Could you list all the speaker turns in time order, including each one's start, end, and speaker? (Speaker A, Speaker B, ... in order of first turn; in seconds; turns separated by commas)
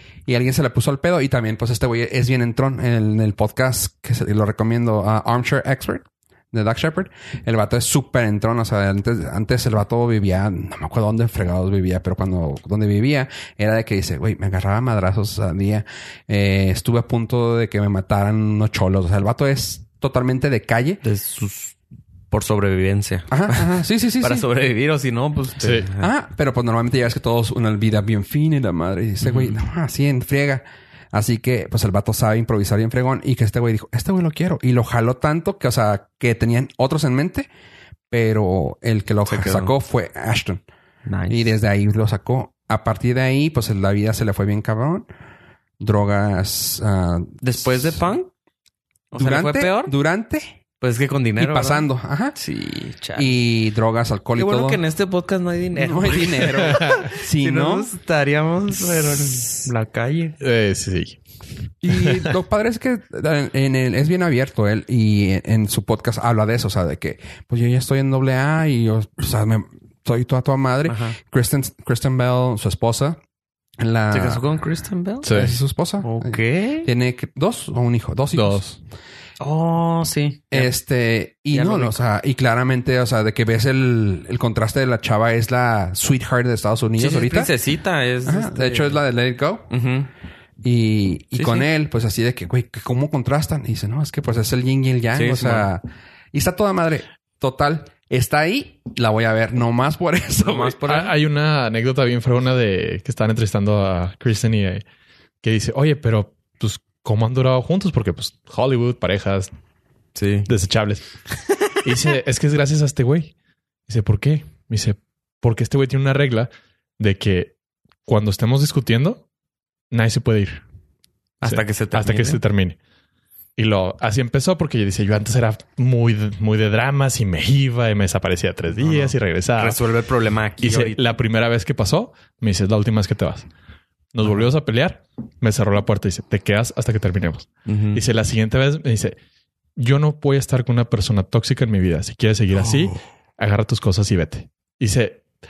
Speaker A: 0.3-21.0, Speaker B: 21.0-21.8, Speaker B: 22.3-26.1, Speaker A: 23.3-24.4, Speaker C: 25.6-25.9, Speaker A: 26.0-37.5, Speaker B: 29.2-29.6, Speaker A: 38.1-40.6, Speaker B: 39.2-39.7, Speaker B: 41.0-41.5, Speaker A: 41.3-45.0, Speaker A: 45.8-48.0, Speaker B: 47.4-48.3, Speaker B: 49.1-49.9, Speaker A: 49.1-50.5, Speaker B: 50.8-53.4, Speaker A: 51.4-52.4, Speaker A: 53.1-54.8, Speaker B: 54.4-60.4, Speaker A: 55.7-57.9, Speaker C: 60.4-61.2, Speaker A: 61.8-73.2, Speaker C: 62.0-62.3, Speaker B: 70.8-71.2, Speaker A: 73.8-74.4, Speaker B: 74.1-75.3, Speaker C: 75.2-75.6, Speaker A: 75.3-78.6, Speaker B: 76.0-76.9, Speaker C: 78.3-78.8, Speaker B: 79.4-80.7, Speaker A: 80.5-87.5, Speaker B: 81.5-82.0, Speaker B: 87.0-89.0, Speaker A: 88.2-89.7, Speaker B: 89.7-90.1, Speaker A: 90.6-100.8, Speaker B: 91.3-91.7, Speaker B: 95.1-95.7, Speaker B: 100.4-101.1, Speaker C: 100.9-104.8, Speaker C: 105.4-109.5, Speaker B: 110.1-110.5, Speaker C: 110.5-111.0, Speaker C: 111.8-113.3, Speaker C: 113.9-117.5, Speaker C: 118.0-119.2, Speaker C: 119.9-120.6, Speaker B: 121.4-122.4, Speaker C: 121.4-122.8, Speaker C: 123.5-129.8, Speaker B: 128.7-131.0, Speaker C: 130.6-133.5, Speaker C: 134.1-139.2, Speaker B: 137.7-138.0, Speaker C: 139.8-145.2, Speaker B: 142.6-142.9